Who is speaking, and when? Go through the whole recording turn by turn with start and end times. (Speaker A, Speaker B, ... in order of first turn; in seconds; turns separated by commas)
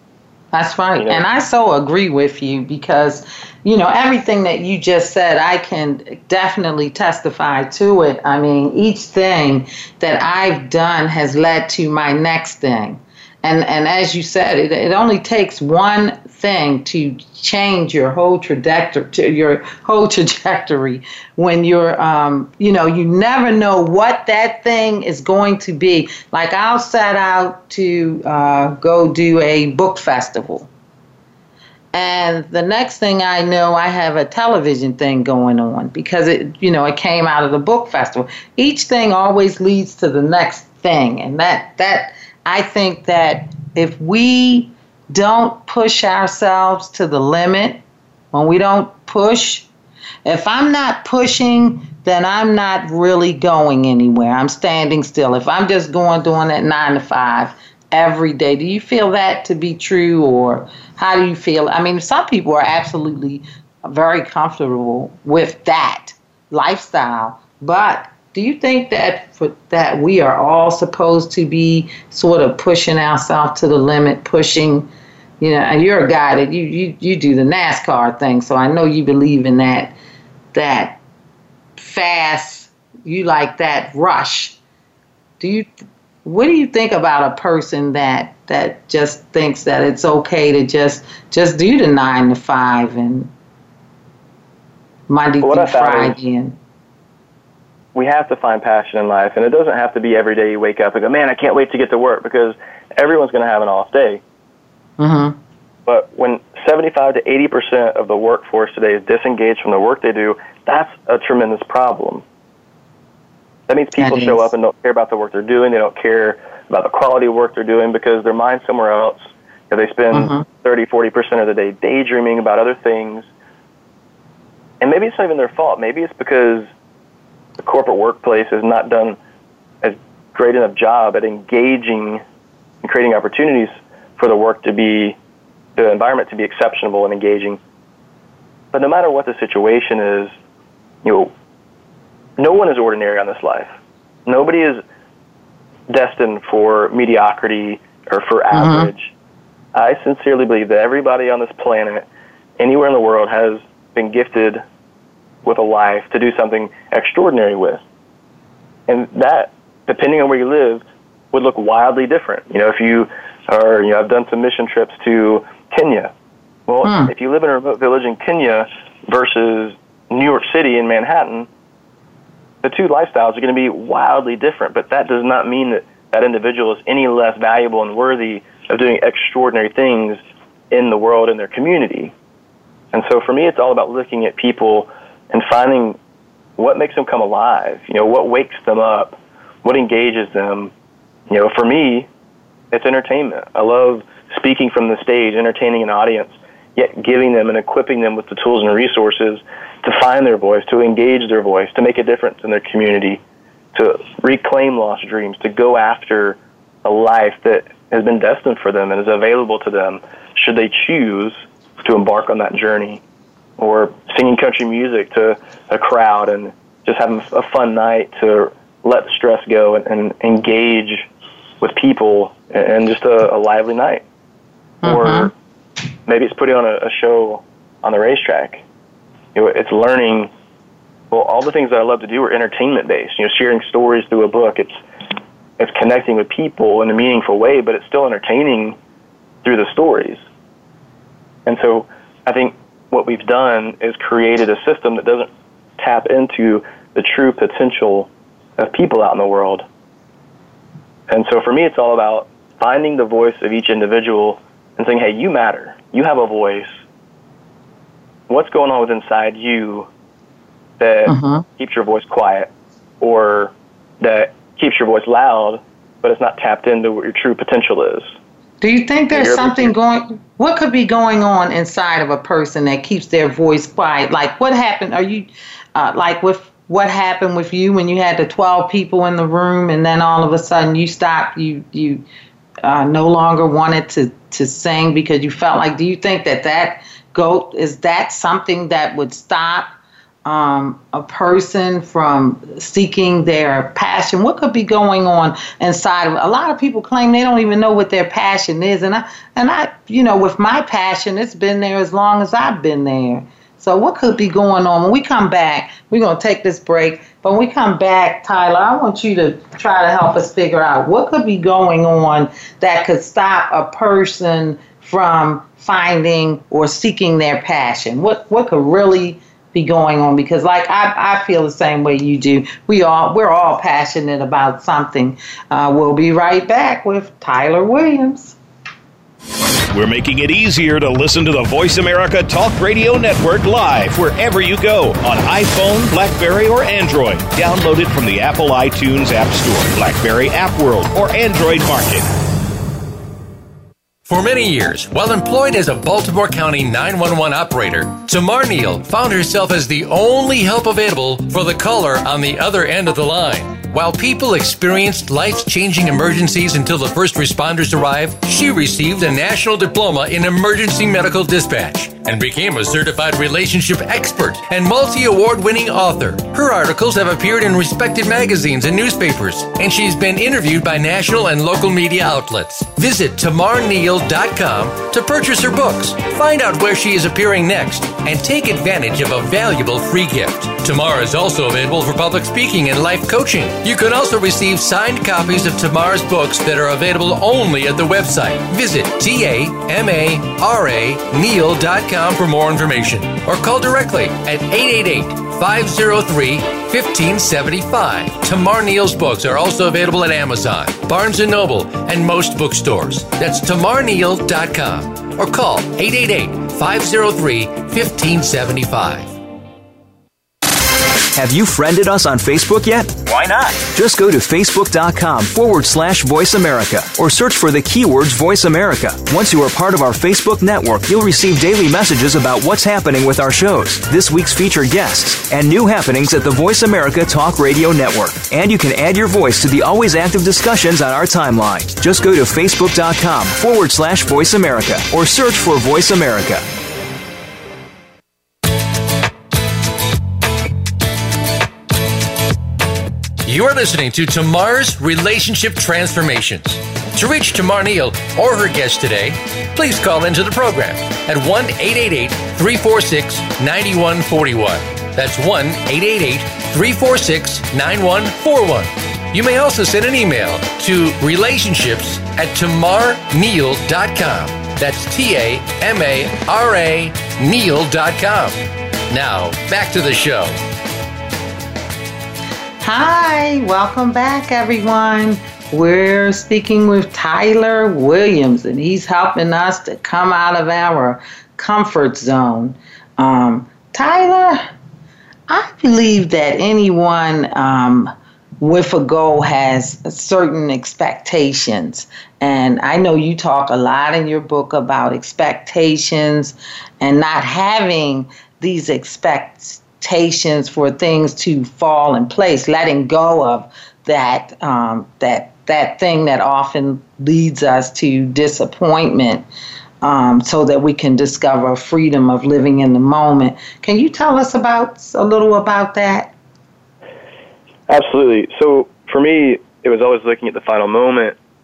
Speaker A: 0.5-30.7, Speaker B: 1.0-1.2, Speaker A: 31.9-47.8, Speaker A: 48.3-49.7, Speaker A: 50.2-74.9, Speaker A: 75.4-79.9, Speaker A: 80.5-81.0, Speaker A: 81.8-84.6, Speaker A: 85.4-85.7, Speaker A: 86.2-93.3, Speaker A: 95.1-96.6, Speaker B: 95.4-96.2, Speaker B: 98.0-104.2, Speaker A: 105.0-105.4, Speaker B: 105.9-112.2, Speaker B: 113.7-123.3, Speaker A: 114.0-114.5, Speaker A: 120.1-120.5, Speaker B: 124.8-126.7, Speaker B: 127.6-129.2, Speaker B: 129.8-132.2, Speaker B: 132.8-135.2, Speaker B: 135.8-137.6, Speaker B: 138.7-140.3, Speaker B: 141.0-141.3, Speaker B: 142.4-143.7, Speaker B: 144.3-144.8, Speaker B: 145.9-149.1, Speaker A: 148.5-148.9, Speaker B: 149.7-152.1, Speaker B: 152.6-154.6, Speaker B: 155.4-157.8, Speaker B: 158.9-166.1, Speaker B: 166.7-171.5, Speaker A: 166.8-167.1, Speaker B: 172.6-180.2, Speaker B: 180.7-182.1, Speaker B: 182.9-186.0, Speaker B: 186.6-190.7, Speaker B: 191.3-192.1, Speaker B: 192.7-203.2, Speaker B: 203.7-213.0, Speaker B: 213.6-221.1, Speaker B: 221.6-224.0, Speaker A: 224.8-225.3, Speaker B: 224.8-225.3, Speaker B: 226.1-228.6, Speaker B: 229.3-230.3, Speaker B: 231.1-234.8, Speaker B: 235.6-238.8, Speaker B: 239.4-240.2, Speaker B: 241.5-249.6, Speaker B: 251.1-256.7, Speaker B: 258.3-259.9, Speaker B: 260.8-262.5, Speaker A: 261.1-261.4, Speaker B: 263.0-268.1, Speaker A: 268.6-282.0, Speaker B: 269.1-269.7, Speaker A: 282.6-289.7, Speaker A: 290.2-328.4, Speaker C: 329.7-342.1, Speaker D: 344.1-409.2, Speaker E: 411.1-436.4, Speaker D: 443.2-468.4, Speaker D: 468.9-470.4, Speaker A: 472.6-484.5, Speaker A: 485.3-509.3, Speaker A: 509.8-516.1, Speaker B: 517.7-521.2